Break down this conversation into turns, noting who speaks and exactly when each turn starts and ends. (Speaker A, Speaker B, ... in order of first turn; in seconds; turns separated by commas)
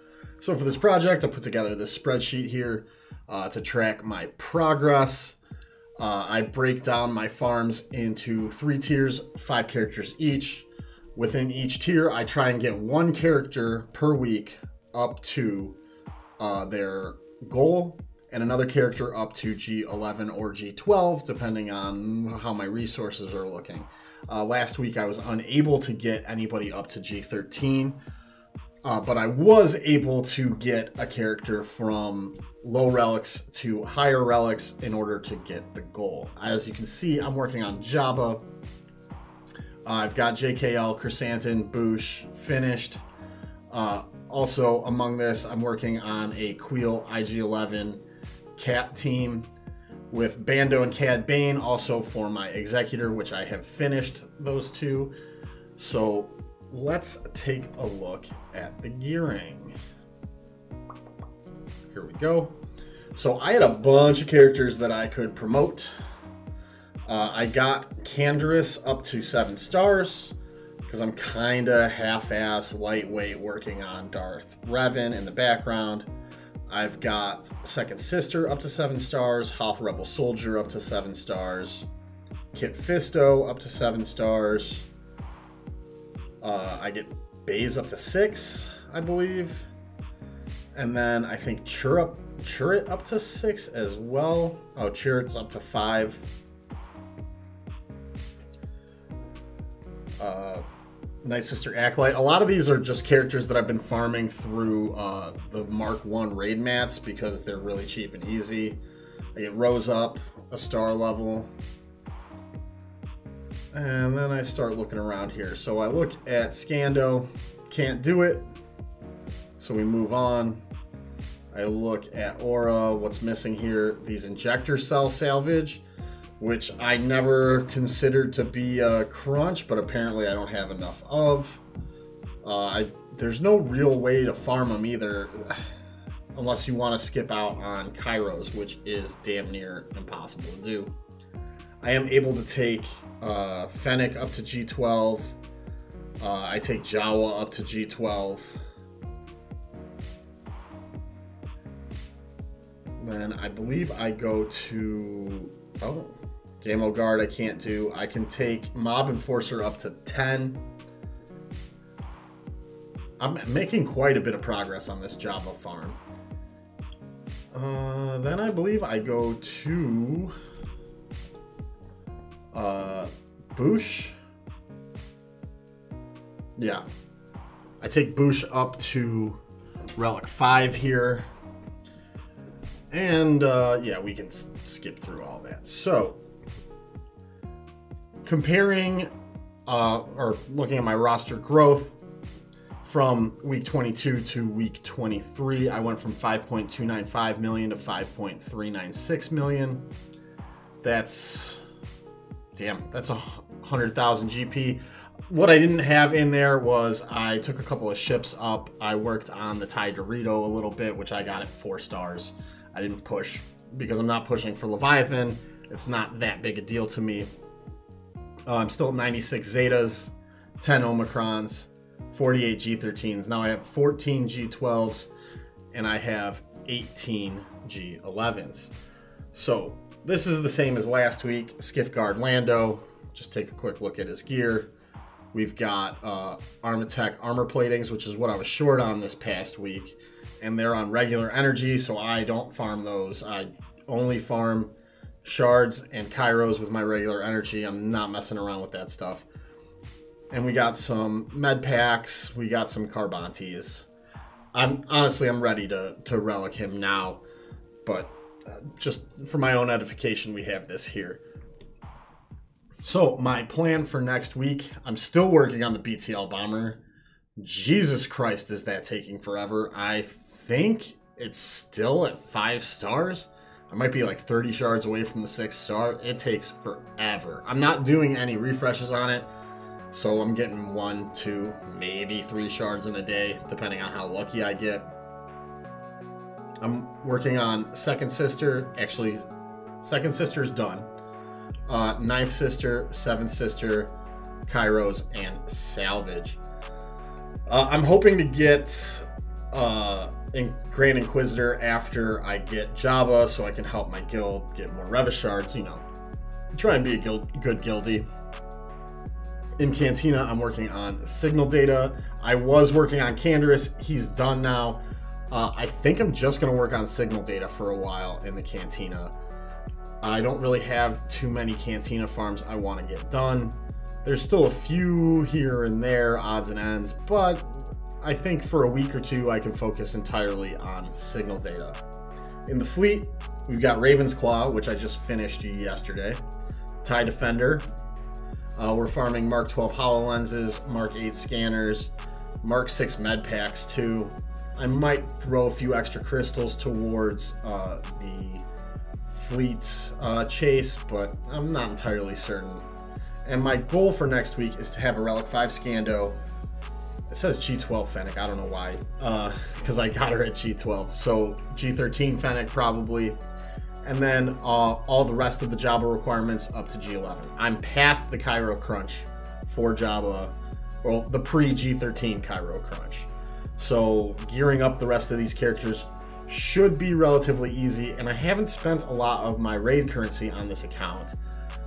Speaker A: 0.4-5.4, Speaker A: 6.0-15.8, Speaker A: 16.4-28.0, Speaker A: 28.8-38.4, Speaker A: 39.8-43.0, Speaker A: 43.7-48.0, Speaker A: 48.5-49.5, Speaker A: 50.1-55.1, Speaker A: 55.8-59.8, Speaker A: 61.9-62.5, Speaker A: 63.1-65.9, Speaker A: 67.1-76.1, Speaker A: 76.7-81.9, Speaker A: 82.5-84.9, Speaker A: 86.4-89.7, Speaker A: 90.8-96.2, Speaker A: 100.2-100.6, Speaker A: 101.2-108.8, Speaker A: 109.3-111.5, Speaker A: 113.7-118.4, Speaker A: 119.6-120.6, Speaker A: 121.5-125.8, Speaker A: 126.4-131.6, Speaker A: 132.4-135.6, Speaker A: 136.3-140.9, Speaker A: 141.8-145.4, Speaker A: 146.2-148.6, Speaker A: 153.0-160.6, Speaker A: 163.2-166.0, Speaker A: 167.5-170.3, Speaker A: 172.5-174.2, Speaker A: 176.6-176.8, Speaker A: 177.8-179.4, Speaker A: 180.0-181.2, Speaker A: 182.9-186.2, Speaker A: 188.2-189.1, Speaker A: 189.7-192.0, Speaker A: 192.8-199.8, Speaker A: 200.8-201.6, Speaker A: 202.5-217.3, Speaker A: 218.5-225.1, Speaker A: 225.7-228.7, Speaker A: 229.3-234.7, Speaker A: 235.3-244.7, Speaker A: 245.2-249.3, Speaker A: 250.3-253.8, Speaker A: 254.5-257.2, Speaker A: 257.8-261.2, Speaker A: 262.8-266.8, Speaker A: 267.4-279.3, Speaker A: 279.9-284.8, Speaker A: 286.6-289.2, Speaker A: 289.8-290.9, Speaker A: 291.7-293.9, Speaker A: 294.5-296.4, Speaker A: 297.5-305.8, Speaker A: 306.5-308.0, Speaker A: 309.6-314.8, Speaker A: 315.3-319.1, Speaker A: 320.0-331.8, Speaker A: 332.4-336.2, Speaker A: 336.8-337.6, Speaker A: 338.6-348.4, Speaker A: 349.1-352.6, Speaker A: 353.2-356.1, Speaker A: 357.1-363.2, Speaker A: 363.8-381.2